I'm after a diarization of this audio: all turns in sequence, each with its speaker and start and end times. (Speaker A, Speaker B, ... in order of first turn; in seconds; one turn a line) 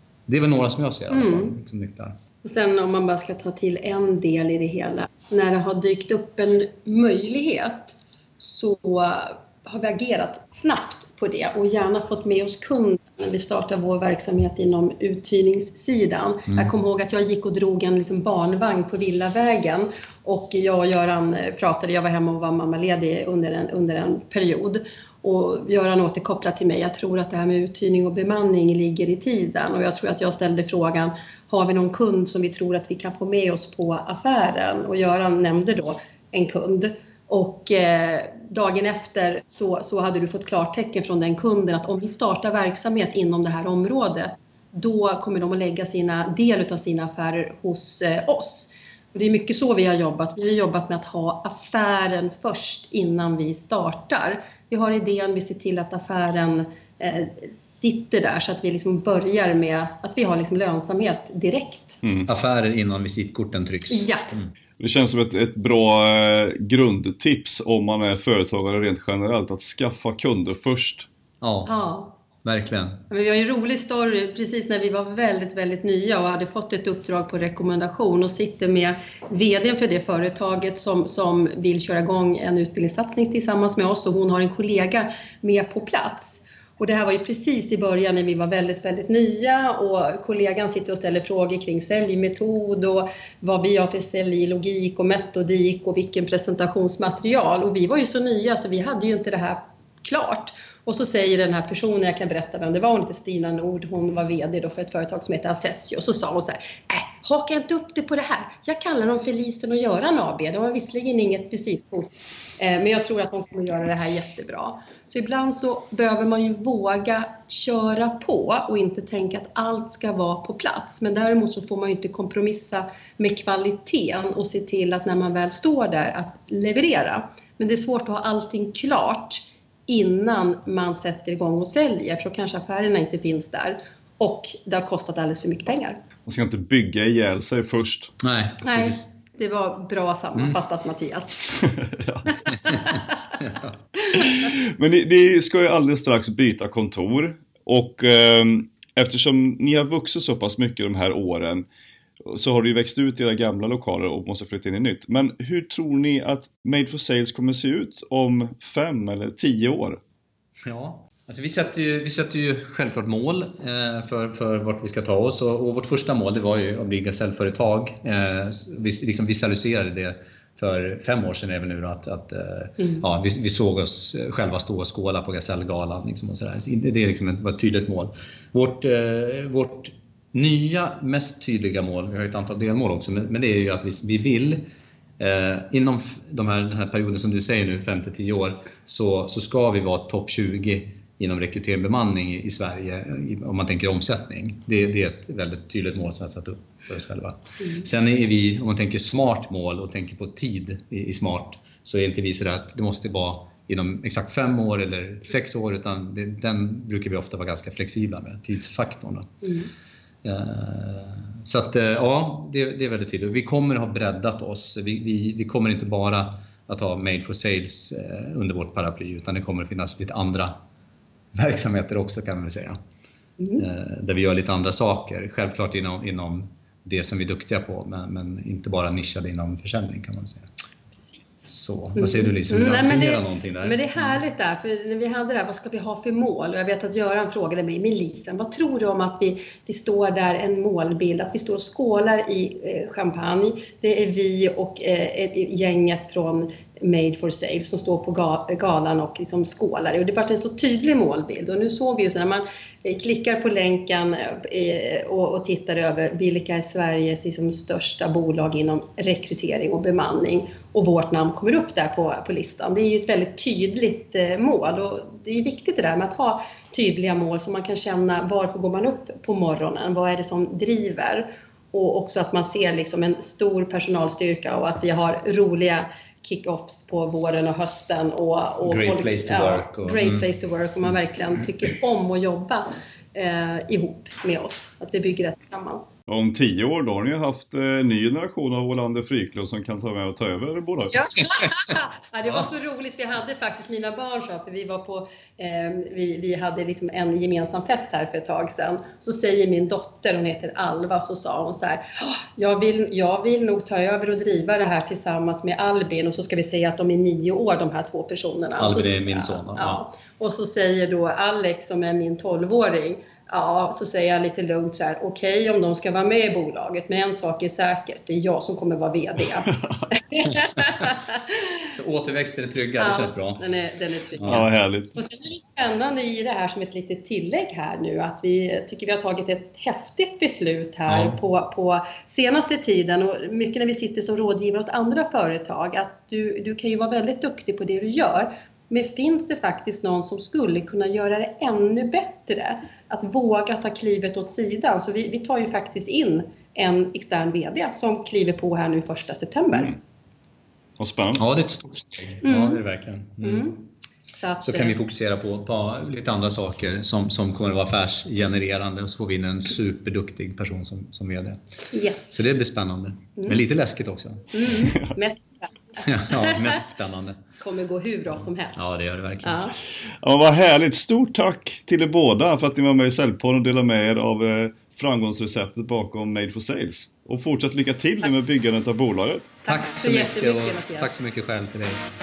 Speaker A: 0.3-2.1
Speaker B: 1.1-1.5
Speaker B: 2.4-62.0
Speaker A: 62.3-64.5
Speaker B: 63.9-64.2
Speaker C: 64.8-71.1
Speaker A: 71.4-71.7
Speaker B: 71.7-72.2
Speaker A: 72.4-73.0
Speaker B: 73.1-136.0
Speaker C: 136.3-138.1
Speaker A: 138.2-139.0
Speaker B: 138.6-141.4
Speaker C: 141.6-142.3
Speaker B: 142.7-142.9
Speaker C: 144.1-151.7
Speaker C: 152.2-160.0
Speaker A: 160.6-184.7
Speaker A: 185.2-209.3
Speaker B: 209.4-209.7
Speaker A: 210.2-220.6
Speaker A: 221.3-222.8
Speaker A: 223.6-230.5
Speaker B: 231.2-231.4
Speaker A: 231.4-234.1
Speaker B: 231.9-286.0
Speaker A: 278.6-280.2
Speaker C: 286.1-291.2
Speaker B: 290.9-321.2
Speaker A: 308.6-309.8
Speaker A: 321.7-323.4
Speaker B: 322.8-349.8
Speaker A: 324.2-324.4
Speaker C: 324.2-324.9
Speaker A: 330.9-331.1
Speaker C: 350.8-351.2
Speaker A: 351.2-353.5
Speaker B: 352.2-352.6
Speaker B: 353.2-353.6
Speaker B: 354.2-354.7
Speaker A: 354.4-361.4
Speaker B: 361.7-362.2
Speaker A: 362.1-364.3
Speaker B: 364.3-366.6
Speaker A: 365.8-367.2
Speaker B: 367.4-368.6
Speaker A: 368.6-369.4
Speaker B: 369.2-369.6
Speaker C: 370.0-379.3
Speaker B: 379.4-380.9
Speaker A: 379.4-381.9